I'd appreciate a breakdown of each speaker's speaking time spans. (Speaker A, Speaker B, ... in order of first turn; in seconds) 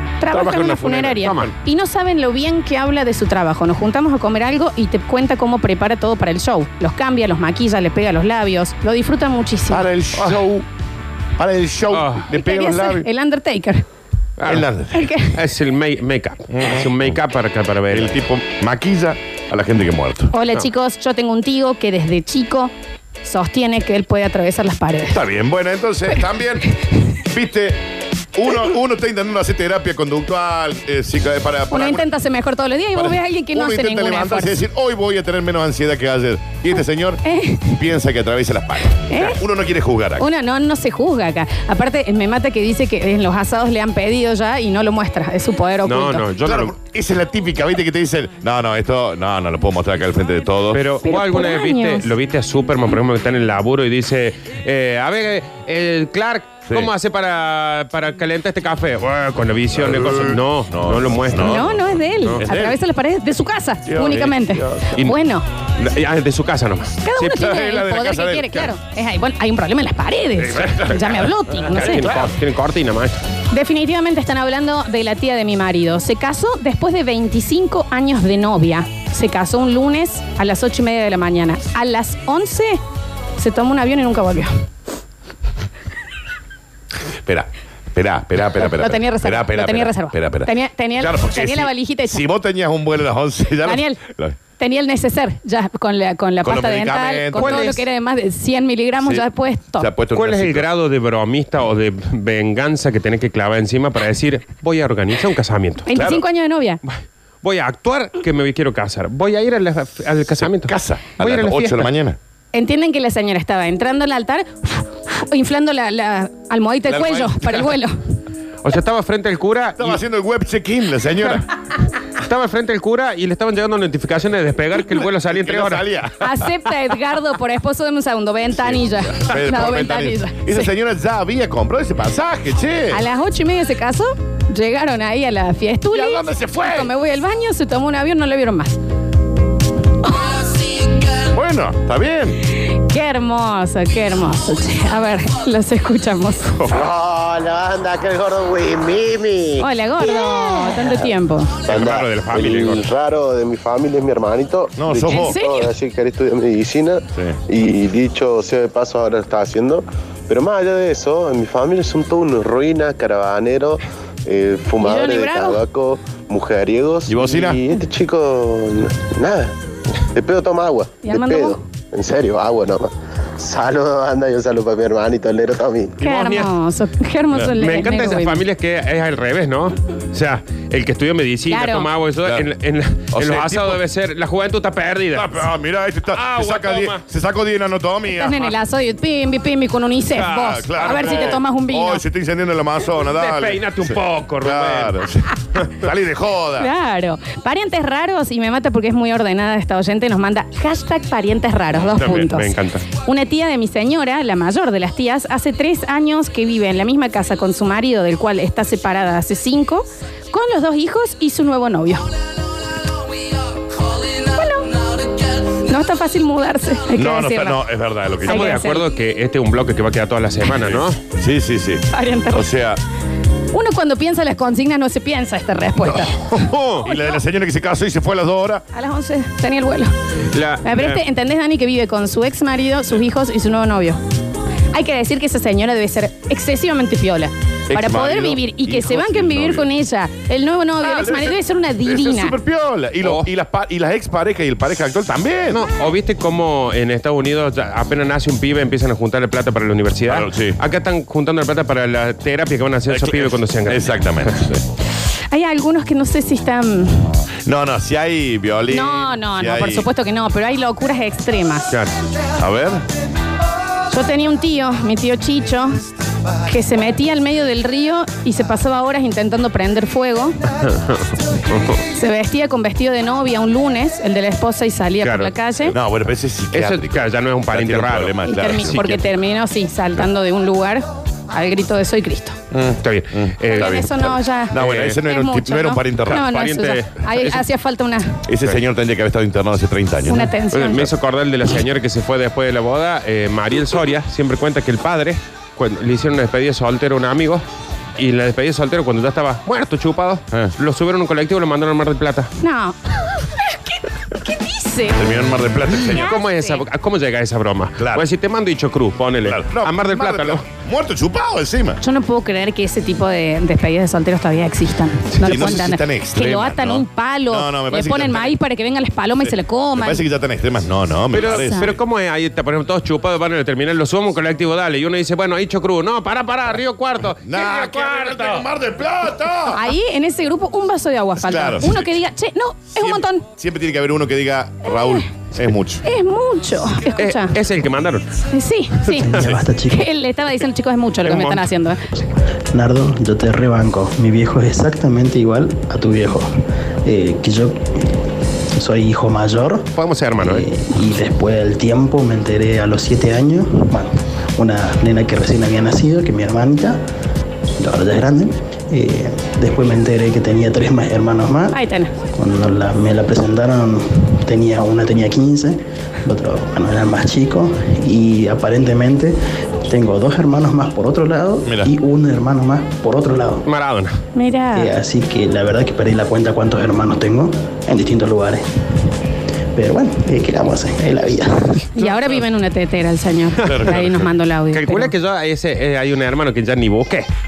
Speaker A: 0.2-9.9, 12.3-13.8, 14.9-15.3, 20.3-22.7, 23.2-25.2, 31.7-34.6, 37.2-37.7, 39.0-39.4, 40.2-46.2, 51.0-52.0, 61.4-65.4, 67.0-72.2, 73.5-82.8, 83.4-84.5, 88.6-92.2, 93.6-94.0, 94.6-99.9, 105.9-106.8, 112.5-118.0, 126.2-130.7, 132.9-138.8, 140.1-140.4, 142.8-146.6, 149.6-151.5, 155.1-155.7, 164.8-165.6, 171.0-171.6, 176.0-178.4, 181.5-181.9, 188.1-192.0, 196.6-202.5, 203.0-212.1, 214.3-214.7, 215.6-217.6, 218.2-218.8, 221.9-222.4, 223.5-226.1, 228.7-229.9, 230.6-234.0, 234.7-242.3, 255.3-257.1, 258.7-261.6, 263.9-265.8, 266.4-270.4, 271.9-275.7, 278.2-282.4, 283.5-288.2, 290.0-290.9, 302.4-302.8, 304.1-305.1, 305.8-306.6, 311.8-320.0, 321.1-321.7, 329.5-333.2, 334.6-335.0, 335.8-337.3, 338.3-339.1, 339.7-341.8, 361.5-361.9, 374.1-374.7, 381.7-384.9
Speaker B: 0.3-1.5, 11.9-12.2, 14.4-14.7, 15.3-18.1, 45.9-46.7, 50.7-61.6, 65.8-67.3, 70.4-73.2, 97.4-97.7, 100.1-105.9, 106.8-111.9, 118.6-120.0, 122.2-125.9, 151.7-152.8, 176.0-176.5, 177.3-185.5, 186.1-187.0, 190.2-191.4, 193.1-195.0, 201.9-202.8, 218.2-221.0, 226.3-226.8, 230.3-231.0, 243.0-243.3, 245.5-254.4, 270.6-271.8, 275.0-275.3, 276.5-278.8, 282.8-283.9, 284.5-285.0, 286.1-287.4, 290.5-297.4, 298.0-302.3, 305.9-310.4, 315.2-315.5, 321.1-328.5, 336.9-338.1, 341.0-341.5, 349.7-350.4, 373.4-374.0, 384.5-387.1
Speaker C: 0.4-1.2, 9.7-10.7, 11.4-13.1, 14.5-15.1, 16.5-17.2, 17.9-20.3, 25.1-26.7, 27.3-27.8, 28.3-32.0, 33.0-37.2, 37.7-40.2, 46.4-50.8, 59.7-62.8, 63.9-64.9, 67.2-68.7, 71.7-72.3, 87.2-94.4, 96.4-97.8, 99.8-100.7, 105.9-106.2, 110.6-112.2, 116.9-117.7, 119.8-121.5, 125.0-126.1, 128.6-133.0, 135.9-136.9, 141.3-142.4, 151.7-152.0, 154.8-155.3, 167.1-167.6, 183.1-183.8, 185.1-188.4, 190.4-196.7, 216.9-218.6, 220.6-222.8, 225.9-228.6, 237.7-239.7, 240.8-245.6, 250.1-250.6, 252.9-254.6, 257.4-259.9, 262.4-262.8, 275.7-279.1, 282.5-286.3, 288.3-290.3, 304.9-306.1, 307.8-308.0, 309.2-311.8, 315.2-318.4, 319.2-321.7, 327.2-329.6, 331.2-332.0, 332.7-335.8, 383.4-384.1
Speaker D: 146.7-149.7, 151.7-169.5, 170.0-176.0
Speaker E: 339.0-339.9, 342.5-346.3, 346.8-347.8, 348.5-349.7, 350.2-356.8, 357.6-361.6, 362.1-373.4, 374.5-378.4, 379.5-381.6